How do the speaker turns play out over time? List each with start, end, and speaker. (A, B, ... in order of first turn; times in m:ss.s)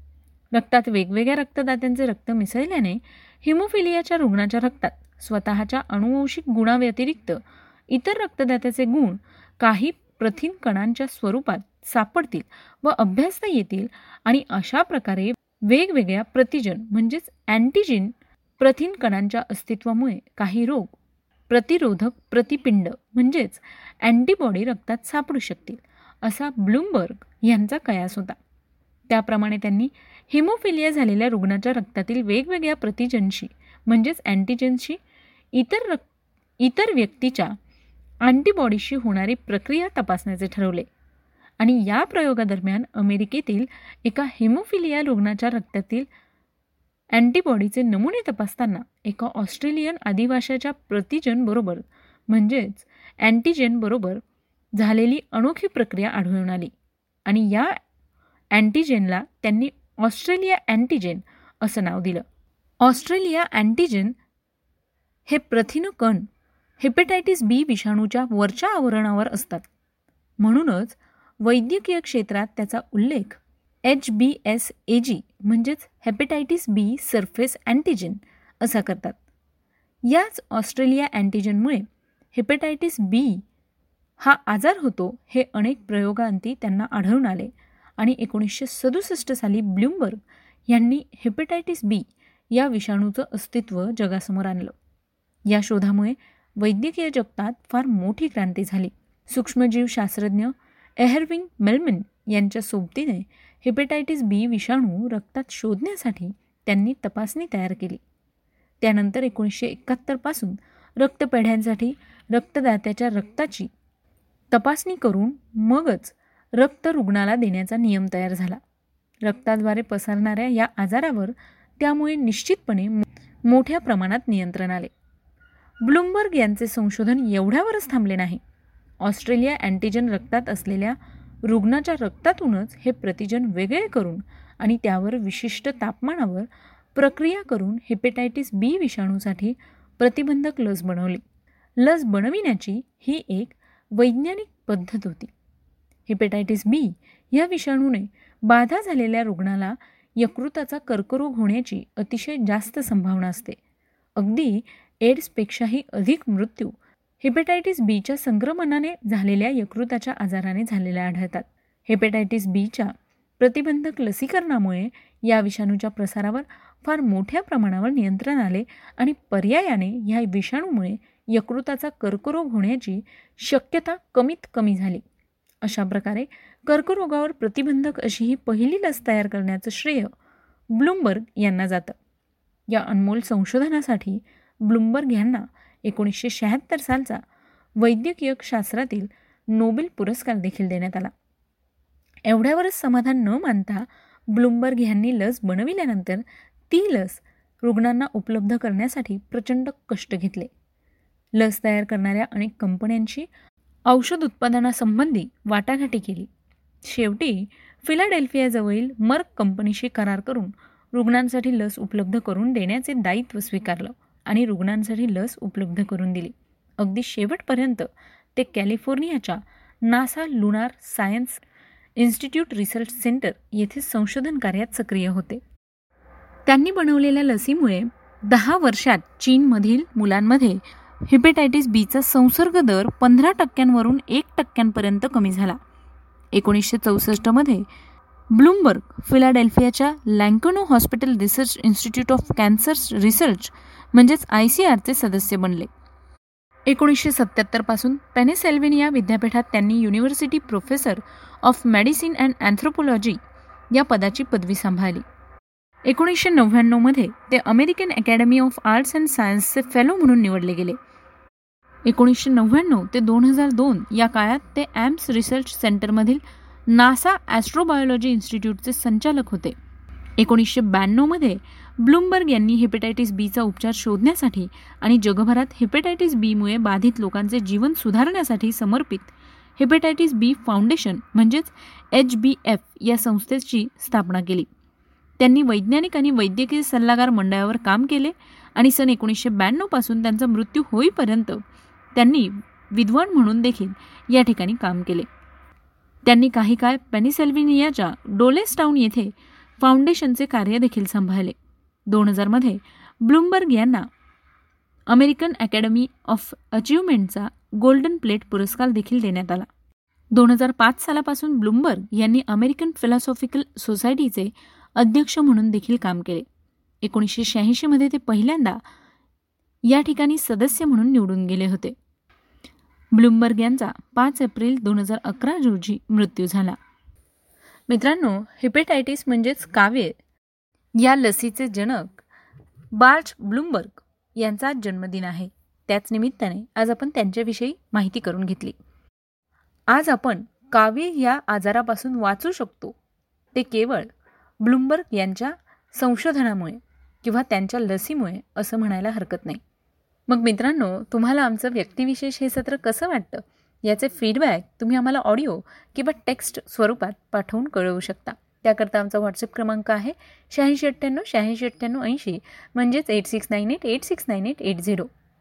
0:00.5-0:21.0 A
0:21.5-0:28.4 A
0:29.1-0:35.0 A
0:35.5-0:36.0 A
0:36.6-0:37.6 A
0:38.2-0:40.9 A
0:41.6-0:46.1 A
0:47.1-0:54.2 A
0:54.7-0:56.7 A
0:57.2-0:57.8 A
0:58.5-1:02.2 A
1:02.8-1:04.2 A
1:05.3-1:06.3 A
1:06.8-1:09.7 A
1:10.4-1:19.2 A
1:20.1-1:23.4 A
1:24.2-1:34.7 A
1:35.5-1:48.0 A
1:48.8-1:53.7 A
1:54.5-1:58.6 A
1:59.2-2:04.9 A
2:05.8-2:08.4 A
2:09.0-2:21.2 A
2:21.8-2:25.3 A
2:26.1-2:33.6 A
2:34.2-2:55.0 A
2:55.6-3:00.1 A
3:00.7-3:02.0 A
3:02.7-3:07.2 A
3:07.8-3:11.1 A
3:12.2-3:20.5 A
3:21.4-3:23.3 A
3:23.9-3:26.3 A
3:26.8-3:41.4 A
3:42.0-3:45.4 A
3:46.4-3:55.6 A
3:56.3-3:57.6 A
3:58.3-4:05.7 A
4:06.7-4:13.2 A
4:13.7-4:15.0 A
4:15.8-4:20.8 A
4:21.8-4:29.5 A
4:30.2-4:44.5 A
4:45.2-4:51.4 A
4:51.9-4:55.1 A
4:56.0-5:01.4 A
5:01.9-5:03.9 A
5:04.9-5:09.5 A
5:10.1-5:16.2 A
5:16.8-5:18.6 A
5:19.6-5:21.7 A
5:22.9-5:26.6 A
5:27.7-5:30.0 A
5:30.8-5:32.0 A
5:32.7-5:38.6 A
5:39.7-5:42.8 A
5:43.3-5:43.9 A
5:44.4-5:49.4 A
5:50.1-6:04.9 A